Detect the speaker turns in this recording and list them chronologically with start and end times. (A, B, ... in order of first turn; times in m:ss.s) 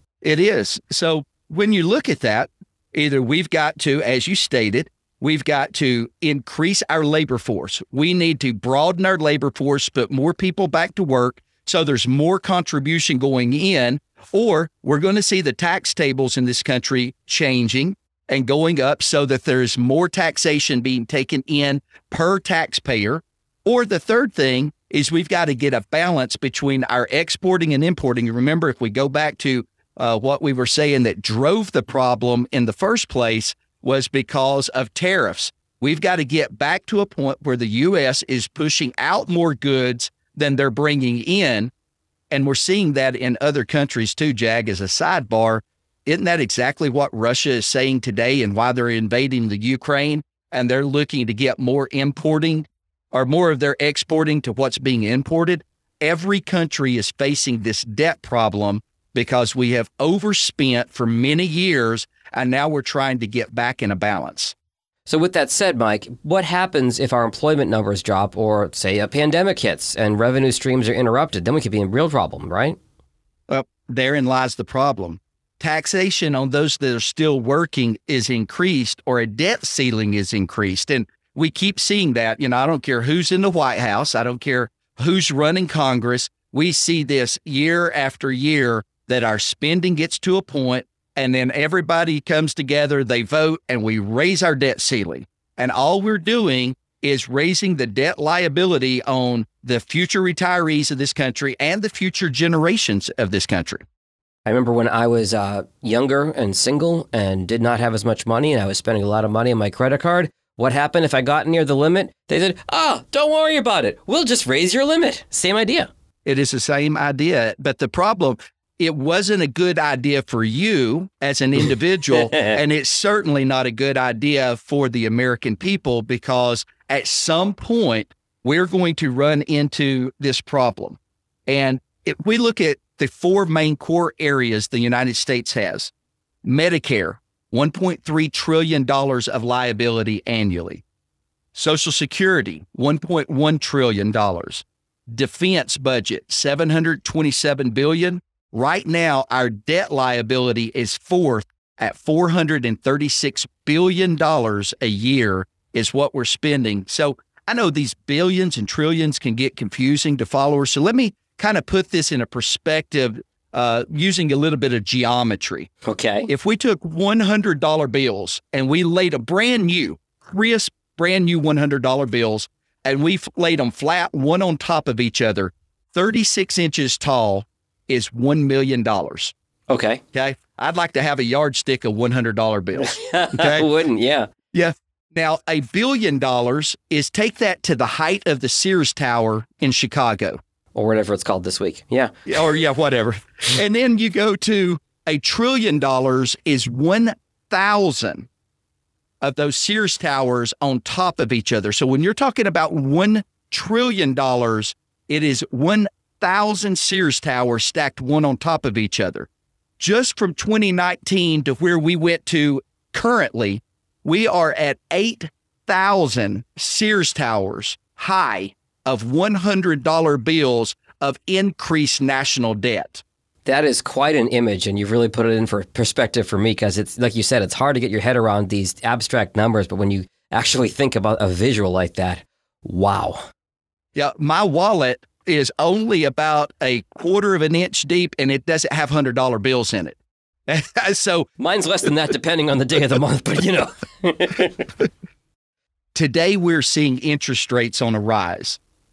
0:00.2-0:41.7 A
0:42.3-1:04.6 A
1:05.1-1:12.8 B
1:13.5-1:43.8 A
1:44.5-1:55.9 B
1:56.2-2:15.9 A
2:16.4-2:20.8 A
2:21.5-2:45.7 A
2:45.9-2:46.3 B
2:46.3-2:59.3 A
2:59.7-3:00.0 B
3:00.1-3:03.7 A
3:02.8-3:04.3 B
3:04.5-3:10.4 A
3:10.7-3:12.1 B
3:12.3-3:18.3 A
3:19.2-3:29.3 A
3:29.8-3:43.0 A
3:43.5-3:53.2 B
3:54.0-4:01.3 A
4:01.4-4:04.8 B
4:05.9-4:08.6 A